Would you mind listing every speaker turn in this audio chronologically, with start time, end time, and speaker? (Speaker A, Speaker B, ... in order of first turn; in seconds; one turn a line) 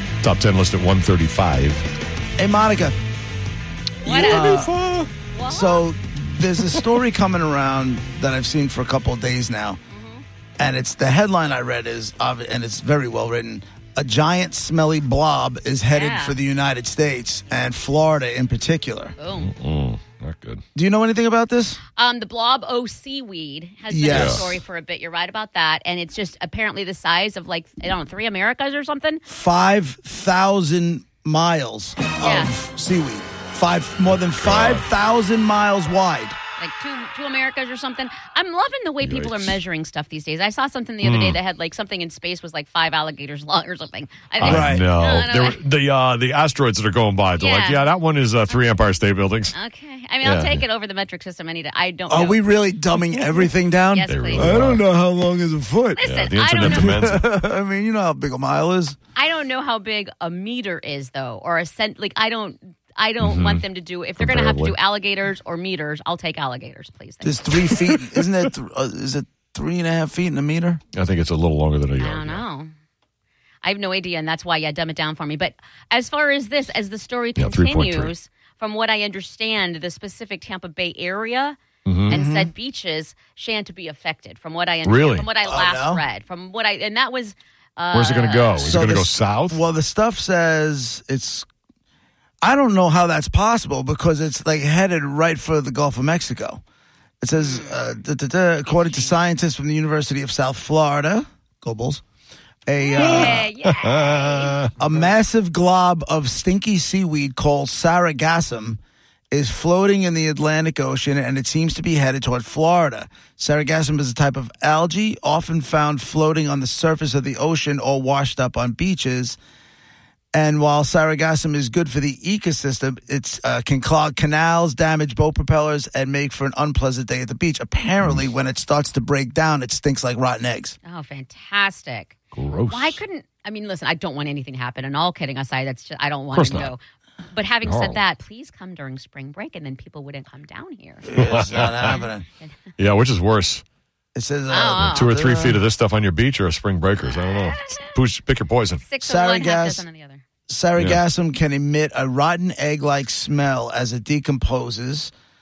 Speaker A: 0.2-1.8
Speaker B: 2.4-2.9
Speaker C: 4.0-4.7
Speaker B: 4.0-4.8
Speaker A: 4.1-5.1
Speaker C: 5.3-5.8
Speaker B: 5.5-9.8
Speaker C: 9.9-10.2
Speaker B: 10.6-19.1
Speaker C: 15.9-16.4
Speaker C: 19.2-19.5
Speaker A: 19.4-20.6
Speaker B: 20.7-21.8
Speaker C: 21.9-29.2
Speaker B: 23.9-24.6
Speaker A: 24.1-24.4
Speaker B: 29.3-36.4
Speaker C: 32.2-32.5
Speaker A: 34.3-34.8
Speaker C: 36.6-45.6
Speaker A: 39.0-39.6
Speaker A: 41.0-41.4
Speaker A: 44.4-49.5
Speaker B: 44.4-44.9
Speaker C: 47.4-47.9
Speaker C: 49.5-52.4
Speaker A: 50.2-50.6
Speaker B: 52.1-59.0
Speaker C: 53.9-54.6
Speaker A: 54.1-54.8
Speaker C: 55.9-57.0
Speaker A: 56.0-57.2
Speaker C: 59.1-67.7
Speaker A: 63.2-63.6
Speaker A: 64.2-64.7
Speaker B: 67.2-70.8
Speaker A: 70.9-72.4
Speaker C: 72.0-72.7
Speaker C: 73.6-88.7
Speaker A: 77.4-78.1
Speaker A: 81.8-82.2
Speaker B: 82.1-82.5
Speaker A: 84.8-85.3
Speaker B: 85.4-86.0
Speaker A: 87.9-89.6
Speaker B: 88.6-91.5
Speaker B: 92.4-96.6
Speaker B: 97.2-102.0
Speaker C: 97.4-97.8
Speaker C: 98.7-99.2
Speaker B: 102.7-103.5
Speaker C: 102.8-104.6
Speaker A: 103.0-104.7
Speaker B: 104.7-108.8
Speaker B: 109.3-119.4
Speaker B: 120.3-130.8
Speaker C: 130.8-132.2
Speaker A: 132.3-133.0
Speaker C: 132.7-136.8
Speaker A: 136.3-136.7
Speaker C: 137.3-142.5
Speaker A: 137.6-138.0
Speaker B: 141.0-142.2
Speaker A: 141.1-141.9
Speaker A: 142.8-143.6
Speaker B: 144.1-145.6
Speaker C: 144.5-145.1
Speaker A: 144.8-148.8
Speaker C: 147.1-147.9
Speaker C: 148.8-150.2
Speaker B: 149.0-149.8
Speaker B: 150.5-155.1